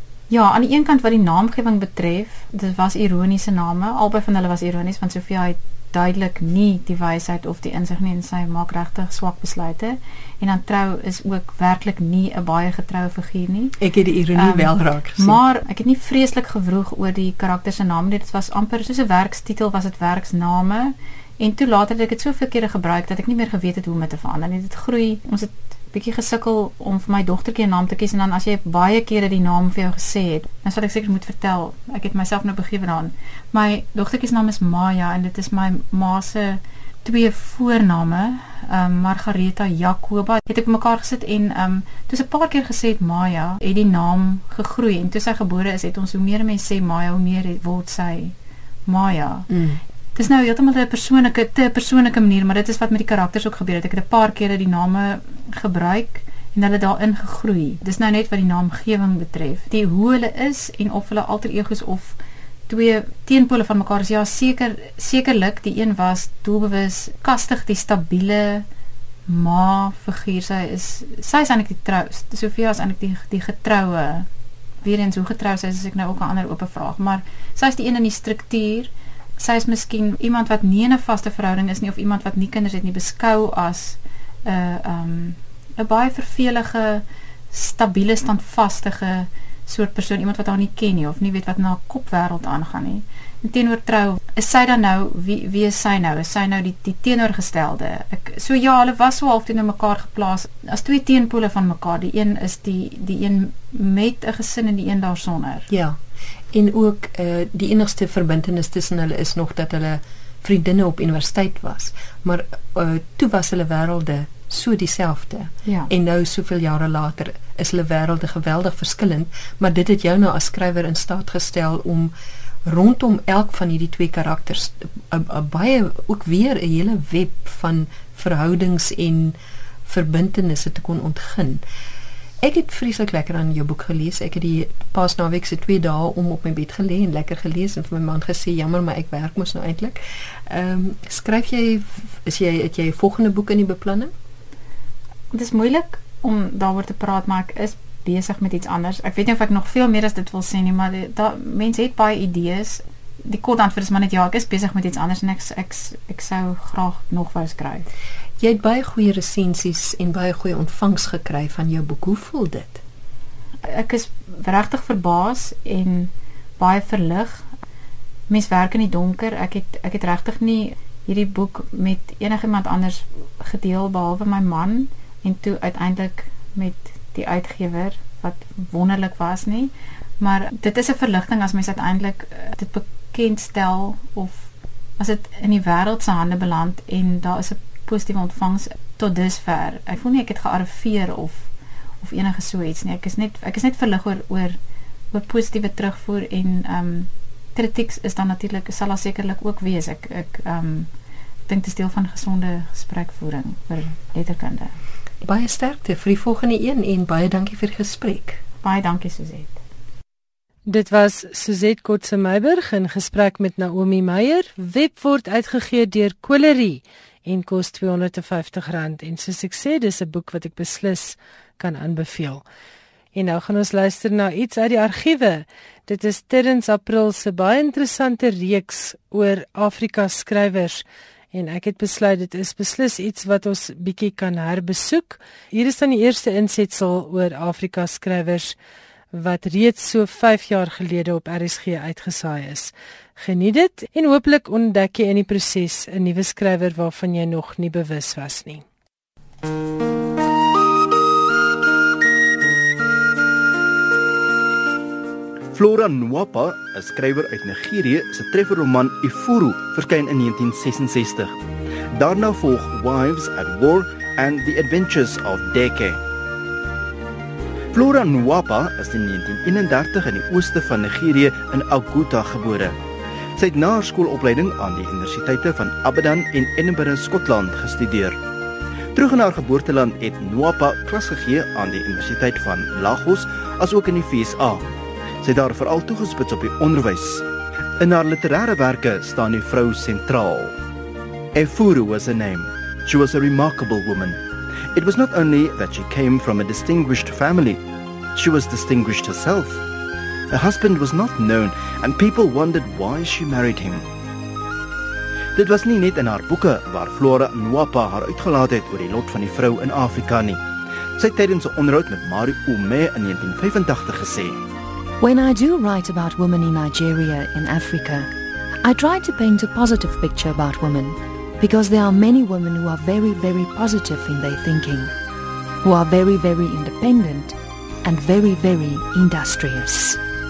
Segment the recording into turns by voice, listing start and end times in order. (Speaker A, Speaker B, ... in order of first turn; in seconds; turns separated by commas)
Speaker A: 0.3-13.8, Speaker B: 13.8-15.4, Speaker A: 14.3-48.3, Speaker A: 48.9-49.5, Speaker B: 49.5-49.8, Speaker A: 50.1-62.2, Speaker A: 62.7-68.6, Speaker A: 69.3-74.3, Speaker A: 74.8-105.7, Speaker B: 105.7-106.0, Speaker B: 106.5-122.1, Speaker A: 115.6-115.9, Speaker B: 122.6-131.6, Speaker B: 132.4-144.1, Speaker A: 145.3-157.8, Speaker B: 158.4-162.8, Speaker A: 163.6-167.5, Speaker A: 168.3-191.5, Speaker A: 192.0-194.6, Speaker A: 195.1-200.9, Speaker A: 201.5-204.7, Speaker B: 205.2-208.4, Speaker A: 208.6-209.6, Speaker C: 210.7-222.4, Speaker C: 223.1-238.5, Speaker C: 239.1-248.6, Speaker D: 255.5-261.4, Speaker D: 261.9-266.0, Speaker D: 267.7-272.7, Speaker D: 273.4-278.2, Speaker D: 278.9-284.6, Speaker D: 285.2-287.2, Speaker D: 287.8-290.6, Speaker D: 291.3-294.2, Speaker D: 294.7-297.6, Speaker D: 298.1-299.6, Speaker D: 300.3-303.9, Speaker D: 305.4-310.4, Speaker D: 311.0-314.4, Speaker E: 315.0-318.1, Speaker E: 318.6-324.9, Speaker E: 325.6-330.0